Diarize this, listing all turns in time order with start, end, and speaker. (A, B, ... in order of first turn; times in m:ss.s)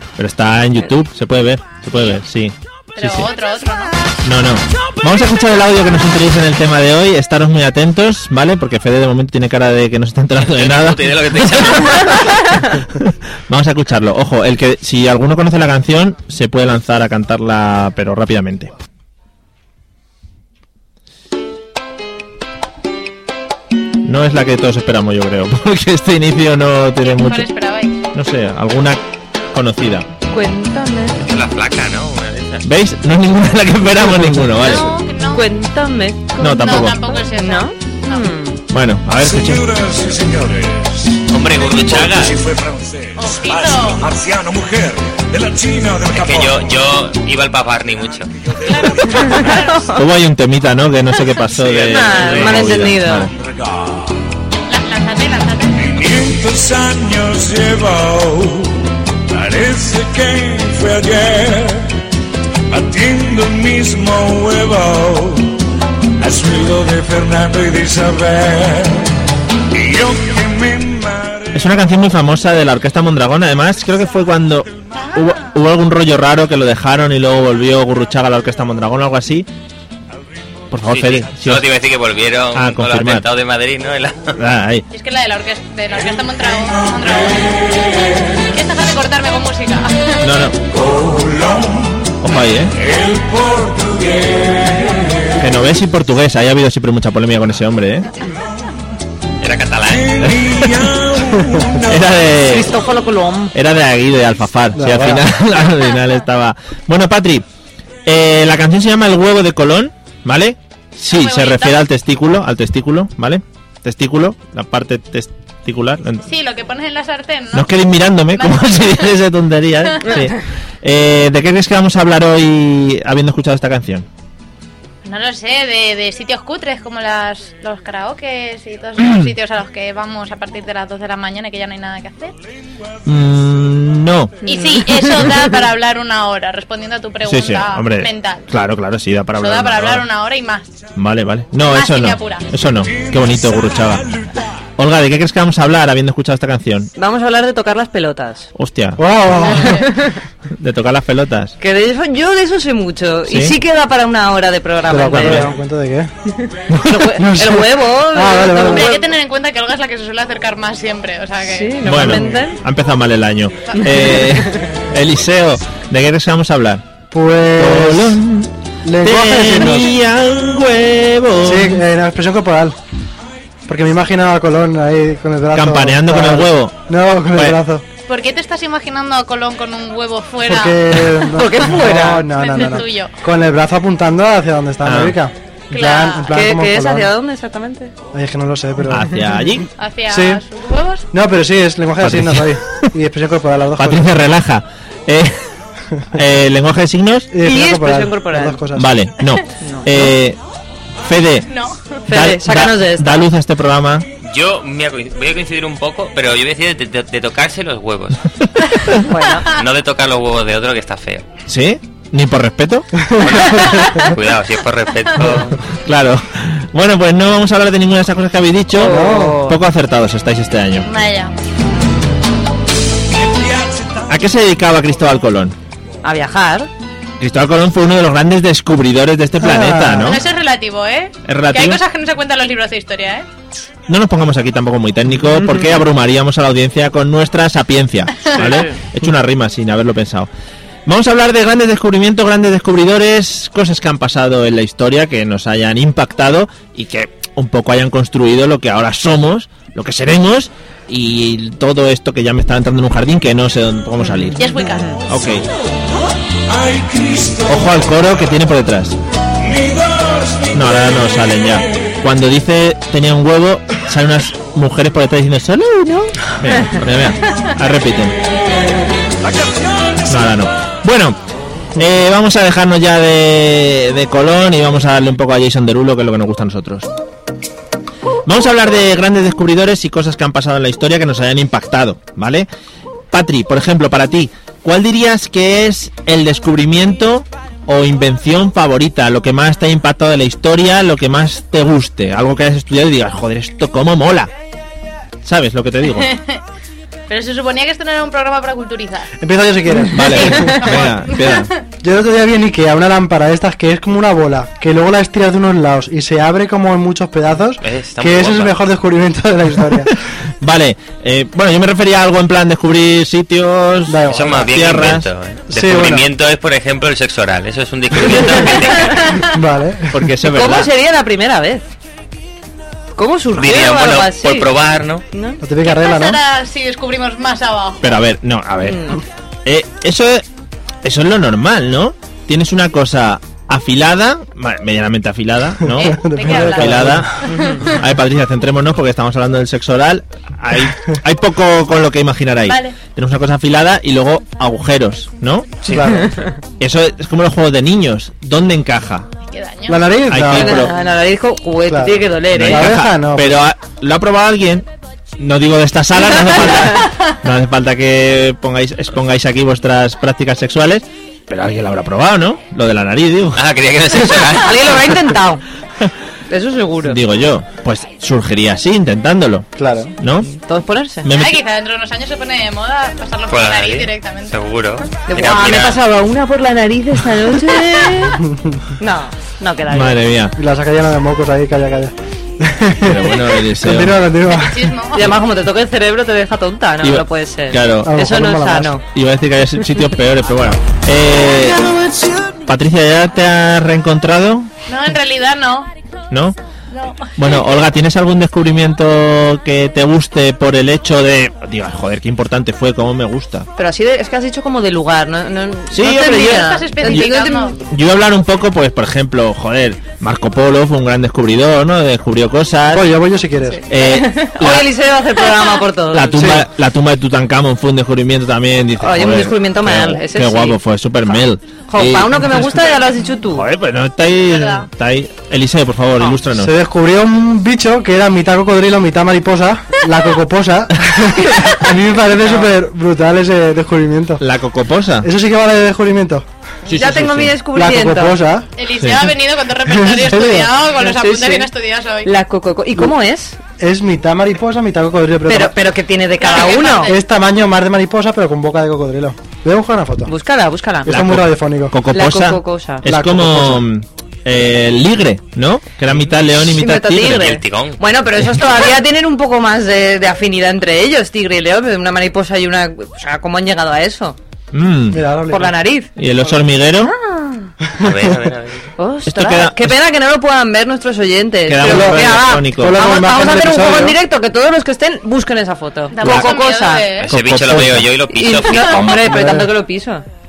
0:00.2-0:03.3 A
0:03.0-0:04.0 B
0:04.2-0:18.7 A
0:10.4-0:12.3 C
0:24.0-0:27.5 A
0:27.1-0:28.0 B
0:28.1-0:30.1 A
0:30.3-0:31.2 D
0:31.2-0:32.6 C
0:32.6-0:34.9 A
0:34.6-0:35.4 B
0:35.3-0:38.6 D
0:36.4-0:37.0 A
0:36.4-0:38.3 B
0:38.7-0:39.6 A
0:39.2-0:46.8 E
0:41.3-0:42.4 C
0:43.2-0:44.1 B
0:46.1-0:48.3 C
0:48.5-0:49.8 E
0:48.7-0:50.0 B
0:49.9-0:53.3 A
0:51.8-0:53.3 D
0:52.1-0:52.5 C
0:53.3-0:54.2 E
0:54.7-0:55.8 B
0:55.7-1:01.9 E
1:02.7-1:05.5 E
1:06.2-1:09.1 E
1:09.7-1:11.6 E
1:11.5-1:19.5 A
1:20.7-1:21.6 A
1:20.9-1:24.4 C
1:22.5-1:23.3 A
1:24.4-1:24.8 A
1:24.9-1:27.8 B
1:28.5-1:30.2 B
1:30.2-1:30.6 A
1:30.7-1:32.2 E
1:32.2-1:32.7 A
1:32.7-1:35.3 E
1:35.4-1:38.1 A
1:39.4-1:40.4 C
1:39.9-1:42.2 E
1:40.2-1:40.8 A
1:41.8-1:42.7 A
1:42.4-1:43.5 D
1:43.5-1:47.4 A
1:44.8-1:45.2 F
1:48.0-1:56.2 A
1:51.1-1:51.8 B
1:56.2-1:57.7 B
1:57.5-2:04.1 A
1:58.3-1:59.0 B
2:05.0-2:12.3 B
2:09.0-2:09.3 A
2:13.0-2:14.4 A
2:14.4-2:18.5 B
2:14.4-2:15.4 D
2:17.2-2:20.1 A
2:19.4-2:20.7 B
2:21.0-2:24.1 A
2:21.7-2:22.5 B
2:22.8-2:24.4 E
2:24.8-2:26.9 A
2:27.0-2:28.5 D
2:28.6-2:29.0 A
2:29.0-2:29.8 F
2:29.4-2:29.9 B
2:29.6-2:30.2 D
2:30.5-2:31.6 A
2:31.6-2:35.6 D
2:33.3-2:33.6 A
2:34.9-2:36.1 F
2:35.1-2:35.5 A
2:36.3-2:39.1 D
2:37.1-2:38.9 F
2:38.5-2:42.0 B
2:41.4-2:42.6 D
2:41.8-2:46.8 A
2:42.0-2:42.4 F
2:43.8-2:44.6 D
2:47.1-2:48.2 F
2:47.6-2:51.8 A
2:48.8-2:49.9 F
2:51.4-2:52.8 F
2:53.7-2:57.8 F
2:55.5-2:56.8 A
2:57.3-2:57.6 A
2:58.1-3:00.8 B
3:00.5-3:07.1 F
3:01.3-3:02.3 D
3:02.3-3:03.1 B
3:04.8-3:05.2 A
3:05.7-3:06.3 B
3:06.3-3:07.9 D
3:08.1-3:09.2 F
3:08.9-3:09.7 A
3:09.8-3:11.1 B
3:10.1-3:10.4 F
3:11.1-3:14.0 F
3:12.0-3:12.9 A
3:13.8-3:15.4 A
3:16.1-3:17.3 A
3:17.3-3:18.9 F
3:17.4-3:18.6 D
3:18.7-3:20.4 A
3:19.6-3:20.1 D
3:21.0-3:21.5 A
3:21.5-3:21.9 B
3:22.1-3:23.2 D
3:22.1-3:24.0 A
3:24.2-3:28.2 C
3:29.0-3:29.5 D
3:29.5-3:31.3 C
3:31.5-3:33.1 A
3:33.2-3:35.6 C
3:33.7-3:34.0 B
3:35.2-3:40.9 A
3:38.7-3:39.6 D
3:38.8-3:39.4 F
3:40.8-3:41.3 B
3:43.2-3:44.1 E
3:44.1-3:45.6 A
3:46.0-3:46.7 D
3:47.2-3:50.2 A
3:49.4-3:50.2 F
3:50.0-3:53.2 B
3:51.3-3:51.8 A
3:53.9-4:00.3 A
3:58.4-3:58.7 D
4:00.8-4:14.4 A
4:14.0-4:15.0 D
4:14.4-4:15.0 B
4:15.1-4:15.5 A
4:16.5-4:18.1 E
4:17.5-4:19.0 A
4:19.4-4:21.6 E
4:20.5-4:28.2 A
4:29.2-4:30.2 E
4:30.1-4:31.2 A
4:31.8-4:36.9 A
4:38.2-4:42.5 A
4:43.1-4:54.3 A
4:55.2-4:56.1 A
4:56.0-4:56.4 B
4:57.1-4:59.1 B
4:59.2-5:00.8 F
4:59.9-5:01.5 A
5:00.0-5:01.6 B
5:01.8-5:09.9 F
5:07.6-5:08.6 C
5:10.4-5:15.1 A
5:13.9-5:14.5 F
5:14.1-5:19.2 C
5:15.5-5:16.0 F
5:18.9-5:19.3 B
5:19.3-5:20.0 F
5:19.9-5:20.7 A
5:20.3-5:21.6 D
5:23.0-5:24.5 D
5:23.4-5:25.0 C
5:25.1-5:25.4 D
5:25.4-5:26.2 F
5:25.6-5:27.9 B
5:27.8-5:30.2 A
5:28.6-5:29.0 D
5:30.8-5:46.0 A
5:35.8-5:37.1 F
5:35.8-5:37.7 B
5:37.3-5:37.6 D
5:42.5-5:42.8 B
5:45.7-5:46.1 F
5:46.6-5:49.1 A
5:49.2-5:49.8 B
5:49.7-5:50.7 F
5:50.1-5:50.7 A
5:50.3-5:52.7 D
5:51.7-5:53.4 F
5:52.3-5:54.7 A
5:55.2-6:03.4 A
6:03.4-6:04.8 C
6:04.3-6:05.4 D
6:06.3-6:07.0 D
6:06.8-6:10.3 A
6:09.6-6:09.9 F
6:10.3-6:11.1 D
6:11.0-6:11.4 A
6:11.1-6:14.4 B
6:13.3-6:15.8 C
6:15.1-6:18.2 D
6:18.3-6:18.6 F
6:18.8-6:20.0 D
6:19.7-6:20.4 A
6:20.4-6:24.7 F
6:22.8-6:24.0 A
6:24.3-6:25.1 B
6:24.9-6:28.8 D
6:26.8-6:28.0 A
6:27.8-6:28.7 F
6:28.9-6:31.6 A
6:32.4-6:34.5 A
6:34.7-6:35.7 B
6:36.1-6:36.4 A
6:36.7-6:37.4 B
6:37.2-6:43.5 A
6:43.6-6:47.6 D
6:45.7-6:47.1 A
6:46.2-6:47.6 B
6:47.7-6:52.9 A
6:52.7-6:53.6 F
6:53.5-6:56.3 D
6:53.7-6:54.7 A
6:55.9-7:02.6 A
6:56.2-6:56.4 F
6:58.8-7:00.6 D
7:01.7-7:03.4 D
7:03.3-7:06.5 A
7:04.3-7:04.6 B
7:06.3-7:14.2 F
7:14.2-7:15.1 A
7:15.0-7:16.2 F
7:16.7-7:17.4 A
7:16.7-7:18.2 D
7:17.5-7:18.5 F
7:18.6-7:22.1 B
7:18.8-7:19.1 A
7:19.7-7:20.5 F
7:20.8-7:21.5 D
7:22.0-7:23.4 D
7:23.6-7:25.6 F
7:25.3-7:26.9 D
7:26.2-7:27.0 B
7:26.9-7:30.1 F
7:30.1-7:30.9 D
7:30.8-7:31.8 F
7:30.9-7:37.4 A
7:31.9-7:32.8 D
7:32.8-7:33.6 F
7:36.4-7:44.2 D
7:37.0-7:37.8 C
7:44.5-7:45.0 A
7:44.9-7:45.5 F
7:45.3-7:47.5 D
7:46.0-7:46.9 A
7:47.8-7:48.7 C
7:48.8-7:56.9 D
7:49.0-7:49.8 A
7:51.4-7:52.9 A
7:51.6-7:54.0 F
7:55.9-7:57.1 B
7:56.0-7:56.3 A
7:57.0-7:59.0 C
7:57.1-7:57.9 A
7:58.1-8:00.0 D
7:58.9-7:59.5 F